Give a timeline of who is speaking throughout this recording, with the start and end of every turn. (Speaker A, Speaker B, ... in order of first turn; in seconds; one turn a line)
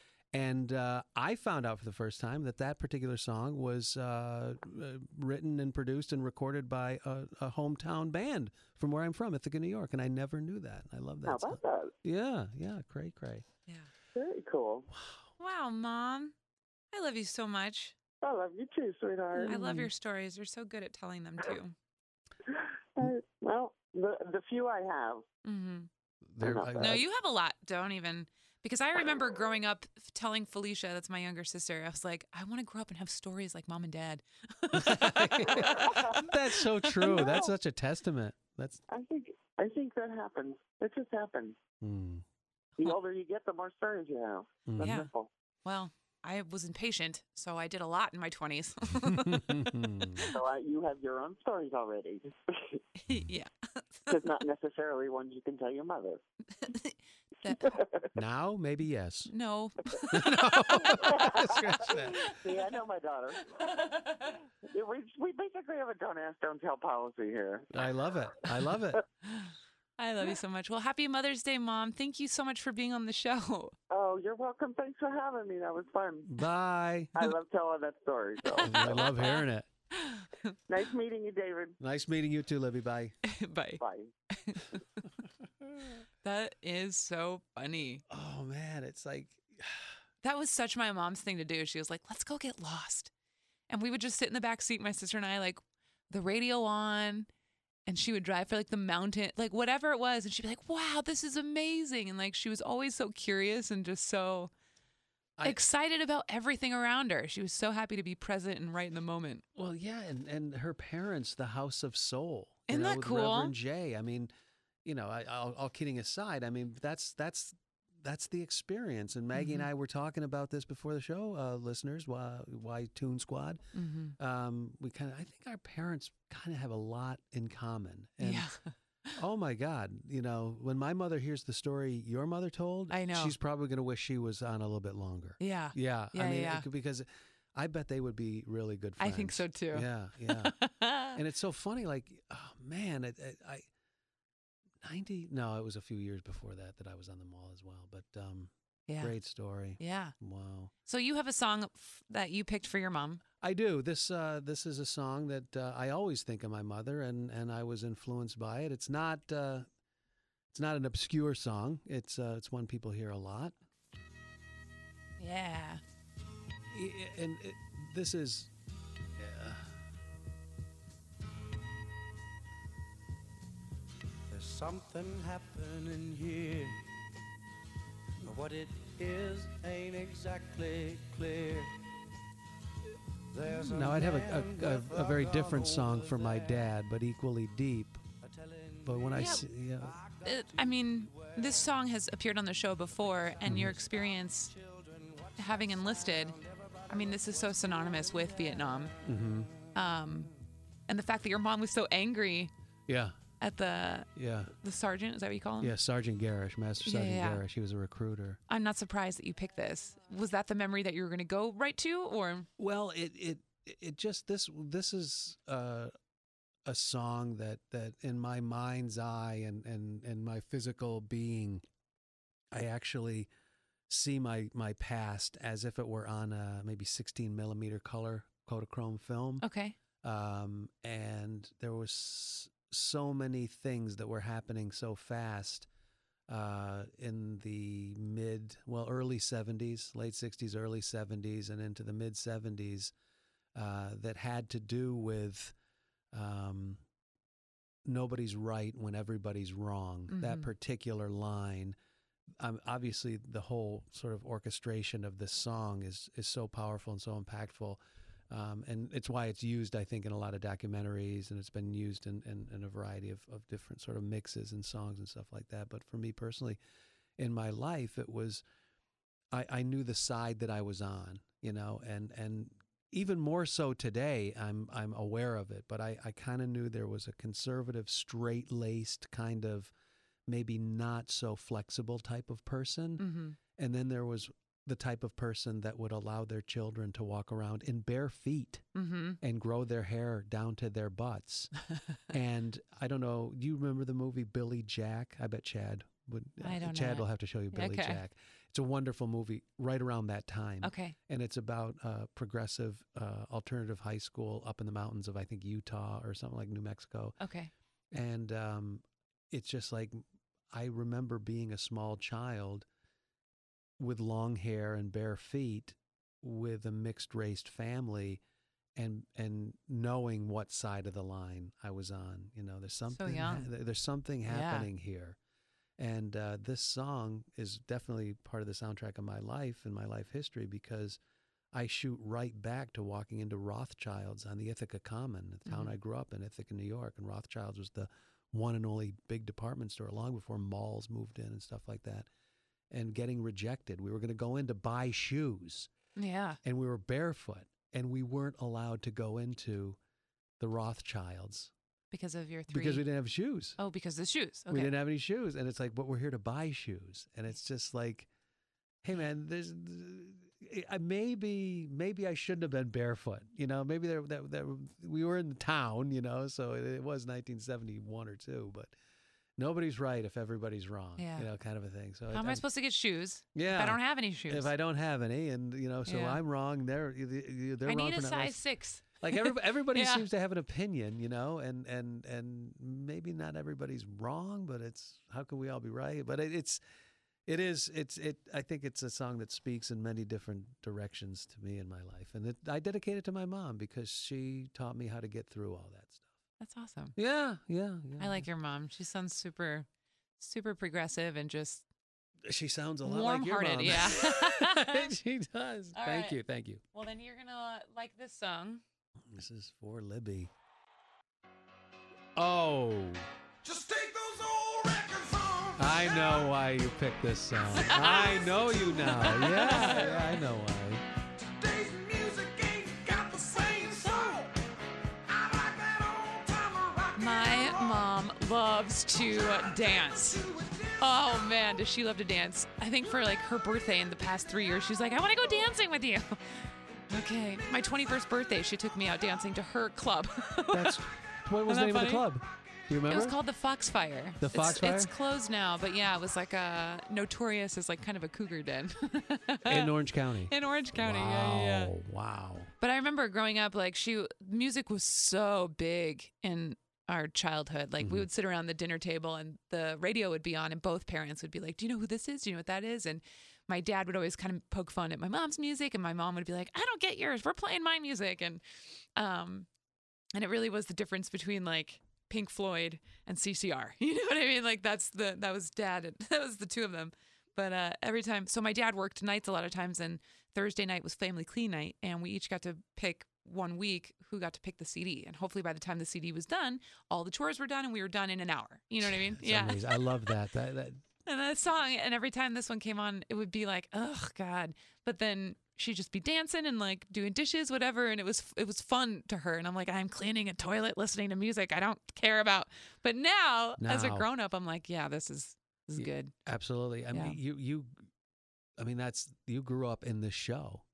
Speaker A: 0.3-13.5
Speaker B: 11.2-11.9
Speaker B: 14.2-14.9
Speaker C: 15.4-16.3
Speaker C: 16.9-17.9
Speaker B: 18.2-19.5
Speaker C: 19.4-21.7
Speaker A: 19.5-19.9
Speaker B: 23.0-25.2
Speaker C: 25.4-25.9
Speaker A: 26.3-27.0
Speaker B: 26.4-27.0
Speaker C: 26.8-37.4
Speaker A: 34.7-38.8
Speaker B: 35.5-36.3
Speaker B: 37.0-37.5
Speaker B: 38.9-41.6
Speaker A: 41.8-42.2
Speaker B: 42.8-45.3
Speaker A: 44.7-45.1
Speaker C: 44.8-45.1
Speaker C: 45.6-50.3
Speaker A: 49.0-50.3
Speaker B: 50.2-52.8
Speaker C: 53.0-54.2
Speaker B: 54.1-56.2
Speaker C: 56.6-57.7
Speaker B: 57.6-58.1
Speaker A: 58.1-59.3
Speaker C: 59.3-61.1
Speaker A: 60.1-62.3
Speaker B: 61.0-63.8
Speaker C: 63.6-64.4
Speaker B: 64.6-67.7
Speaker A: 67.7-69.0
Speaker C: 69.3-73.7
Speaker B: 73.9-76.3
Speaker A: 76.3-77.2
Speaker B: 77.2-79.2
Speaker C: 78.5-80.6
Speaker A: 78.6-79.7
Speaker B: 80.7-81.8
Speaker A: 81.8-83.2
Speaker C: 83.2-83.8
Speaker B: 83.8-84.1
Speaker C: 84.3-84.8
Speaker C: 86.2-88.0
Speaker A: 88.1-89.9
Speaker C: 90.2-93.1
Speaker C: 93.7-97.3
Speaker C: 97.9-104.5
Speaker C: 105.4-109.4
Speaker A: 109.5-114.3
Speaker C: 112.7-113.5
Speaker A: 114.8-123.6
Speaker C: 119.3-119.7
Speaker C: 123.8-124.2
Speaker A: 124.2-128.5
Speaker C: 128.2-128.7
Speaker A: 129.2-140.6
Speaker C: 132.9-133.4
Speaker C: 135.4-136.7
Speaker C: 139.0-141.2
Speaker A: 141.1-143.7
Speaker A: 144.8-150.7
Speaker C: 148.9-149.2
Speaker C: 149.8-150.1
Speaker C: 150.9-153.2
Speaker A: 153.4-159.7
Speaker A: 160.5-163.6
Speaker C: 165.2-165.8
Speaker A: 166.7-168.5
Speaker A: 169.2-169.7
Speaker D: 174.3-176.8
Speaker D: 178.2-181.7
Speaker D: 183.3-186.7
Speaker A: 183.4-188.0
Speaker D: 188.2-191.8
Speaker A: 188.8-190.0
Speaker C: 189.2-189.5
Speaker C: 190.2-194.5
Speaker D: 192.9-199.7
Speaker A: 193.5-193.8
Speaker C: 195.4-198.9
Speaker A: 199.0-199.5
Speaker C: 199.8-200.3
Speaker C: 200.9-202.5
Speaker A: 202.9-203.2
Speaker C: 203.4-204.1
Speaker A: 204.2-204.5
Speaker C: 204.6-205.7
Speaker A: 205.6-208.4
Speaker C: 206.8-207.4
Speaker C: 208.5-212.5
Speaker A: 212.6-215.9
Speaker A: 216.7-221.6
Speaker A: 222.5-223.3
Speaker A: 223.9-229.4
Speaker C: 229.4-229.8
Speaker A: 230.0-235.7
Speaker A: 236.3-242.9
Speaker A: 243.6-245.5
Speaker A: 246.1-246.8
Speaker A: 247.9-251.8
Speaker C: 250.1-250.5
Speaker A: 252.4-257.8
Speaker A: 258.3-266.6
Speaker A: 267.2-268.4
Speaker A: 269.3-279.7
Speaker A: 280.3-283.1
Speaker C: 283.0-283.4
Speaker A: 283.6-288.6
Speaker C: 288.8-289.2
Speaker A: 289.2-291.5
Speaker A: 292.1-307.2
Speaker C: 296.4-298.0
Speaker C: 300.6-301.0
Speaker C: 307.2-307.5
Speaker A: 307.9-312.7
Speaker A: 313.8-318.2
Speaker A: 318.8-325.2
Speaker C: 322.9-323.5
Speaker C: 324.3-324.7
Speaker A: 325.8-331.0
Speaker A: 331.5-342.1
Speaker C: 335.5-335.8
Speaker A: 342.7-345.7
Speaker C: 346.0-346.4
Speaker A: 346.4-349.8
Speaker A: 350.4-351.5
Speaker C: 351.9-352.9
Speaker A: 352.5-353.6
Speaker C: 353.6-354.7
Speaker A: 354.5-358.1
Speaker A: 358.8-368.7
Speaker A: 369.4-372.4
Speaker C: 371.0-371.3
Speaker C: 372.1-374.5
Speaker A: 373.4-378.4
Speaker C: 375.9-376.2
Speaker C: 377.7-380.1
Speaker A: 379.0-386.6
Speaker A: 387.3-396.1
Speaker C: 396.4-396.9
Speaker A: 397.0-398.3
Speaker C: 398.0-399.7
Speaker C: 400.2-401.7
Speaker A: 402.3-406.6
Speaker C: 402.9-404.9
Speaker C: 405.8-406.2
Speaker C: 406.7-408.6
Speaker A: 409.1-410.3
Speaker A: 412.2-413.1
Speaker E: 413.4-416.3
Speaker A: 415.6-420.8
Speaker C: 417.5-418.2
Speaker E: 417.6-420.1
Speaker C: 418.8-420.0
Speaker E: 421.1-424.4
Speaker E: 425.1-427.9
Speaker C: 427.0-430.3
Speaker E: 429.0-431.4
Speaker C: 430.8-436.2
Speaker C: 436.9-440.8
Speaker A: 440.5-443.2
Speaker C: 441.5-442.1
Speaker C: 442.9-449.7
Speaker A: 444.2-444.9
Speaker A: 449.5-452.5
Speaker C: 450.3-451.7
Speaker C: 452.6-468.4
Speaker A: 457.8-458.1
Speaker C: 469.0-469.5
Speaker C: 470.1-490.1
Speaker A: 488.8-490.9
Speaker C: 491.1-506.1
Speaker A: 503.6-504.1
Speaker A: 505.8-507.7
Speaker C: 506.9-507.2
Speaker A: 508.6-510.6